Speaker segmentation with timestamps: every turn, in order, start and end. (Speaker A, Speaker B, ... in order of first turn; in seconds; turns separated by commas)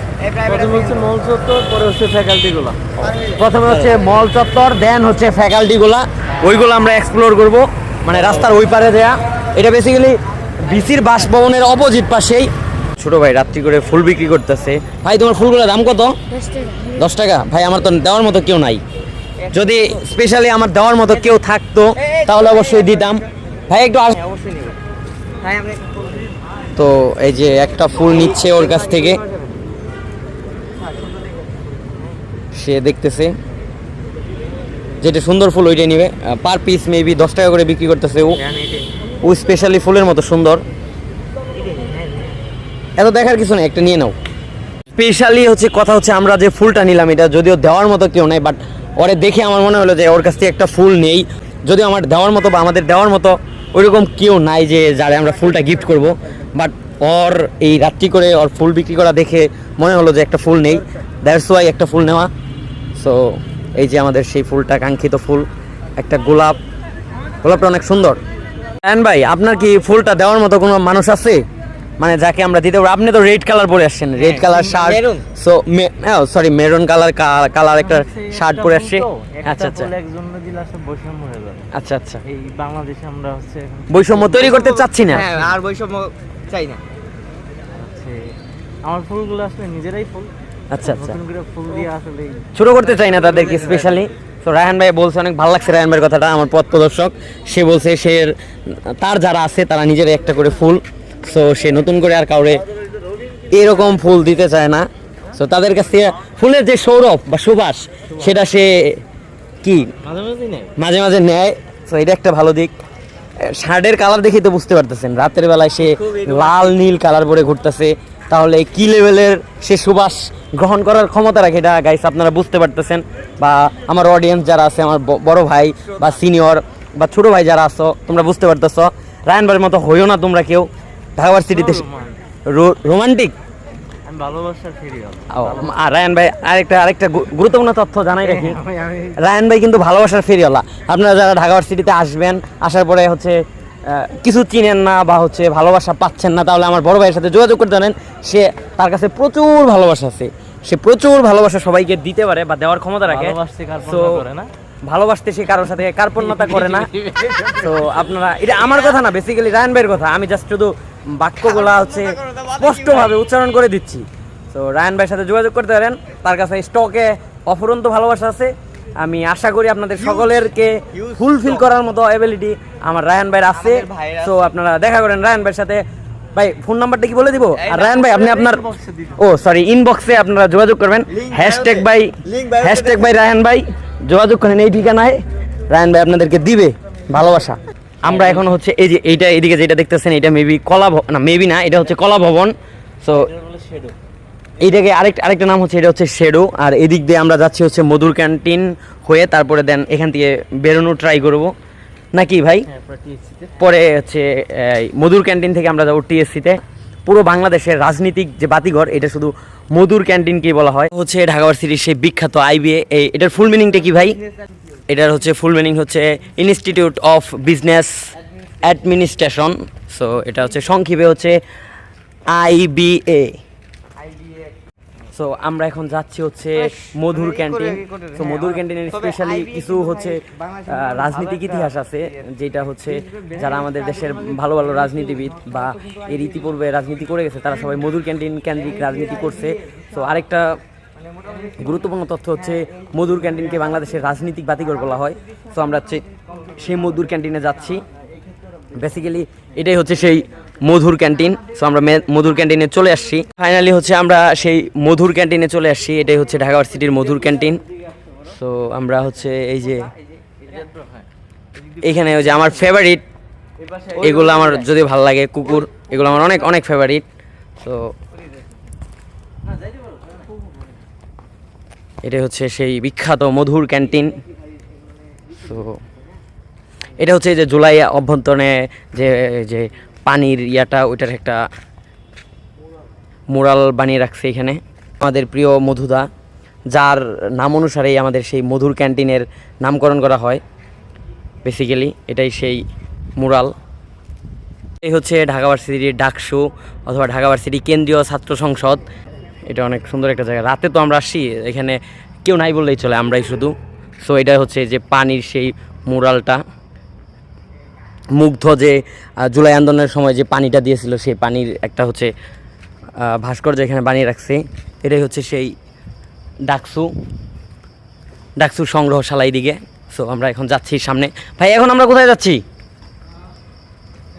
Speaker A: 0.2-0.9, Speaker B: 0.4-3.1, Speaker C: 3.2-16.1, Speaker C: 16.8-18.8, Speaker C: 19.5-24.2, Speaker A: 24.2-24.8, Speaker A: 25.4-26.0, Speaker C: 26.8-29.2, Speaker C: 32.5-33.3, Speaker C: 35.0-38.4, Speaker C: 39.2-40.6, Speaker A: 41.6-42.1, Speaker C: 43.0-44.1, Speaker C: 44.9-62.3, Speaker C: 63.0-65.5, Speaker C: 66.0-66.6, Speaker C: 67.4-68.2, Speaker C: 68.8-71.4, Speaker C: 72.0-79.9, Speaker A: 74.2-75.2, Speaker B: 77.8-81.7, Speaker C: 81.7-82.2, Speaker B: 82.2-84.6, Speaker C: 83.9-85.2, Speaker A: 84.4-86.8, Speaker B: 85.1-85.6, Speaker B: 87.7-90.3, Speaker C: 90.7-91.2, Speaker B: 90.8-94.0, Speaker C: 92.5-102.6, Speaker C: 103.5-109.0, Speaker C: 109.6-109.9, Speaker B: 110.0-110.7, Speaker C: 110.8-112.7, Speaker C: 113.4-131.8, Speaker B: 131.4-132.2, Speaker C: 132.5-133.3, Speaker B: 134.1-135.7, Speaker C: 135.3-138.6, Speaker B: 138.2-139.2, Speaker C: 139.1-154.2, Speaker B: 153.0-154.5, Speaker C: 154.9-156.9, Speaker B: 156.2-157.6, Speaker C: 157.5-175.8, Speaker A: 161.7-163.1, Speaker A: 170.9-171.6, Speaker A: 173.5-174.4, Speaker C: 176.3-178.6, Speaker A: 177.6-178.1, Speaker B: 178.0-179.2, Speaker C: 179.2-193.3, Speaker A: 181.2-182.9, Speaker B: 188.1-188.4, Speaker B: 193.2-193.9, Speaker C: 194.6-201.5, Speaker C: 202.1-202.7, Speaker B: 202.7-203.6, Speaker C: 203.6-214.2, Speaker C: 214.9-218.0, Speaker C: 218.6-221.4, Speaker C: 222.3-223.4, Speaker C: 225.1-240.4, Speaker A: 226.7-231.7, Speaker A: 233.1-233.8, Speaker A: 241.1-241.6, Speaker C: 241.6-247.8, Speaker C: 248.7-257.6, Speaker C: 258.2-259.9, Speaker B: 260.3-261.1, Speaker B: 261.7-262.6, Speaker C: 261.8-263.0, Speaker B: 263.6-264.7, Speaker C: 263.9-267.0, Speaker C: 267.6-267.9, Speaker C: 272.0-274.2, Speaker C: 275.3-275.8, Speaker C: 277.0-281.4, Speaker C: 283.3-286.1, Speaker C: 286.7-290.4, Speaker C: 291.4-292.6, Speaker C: 293.2-293.5, Speaker C: 294.8-298.8, Speaker C: 299.5-306.4, Speaker C: 308.1-312.1, Speaker C: 313.0-315.5, Speaker C: 316.5-316.9, Speaker C: 318.4-322.4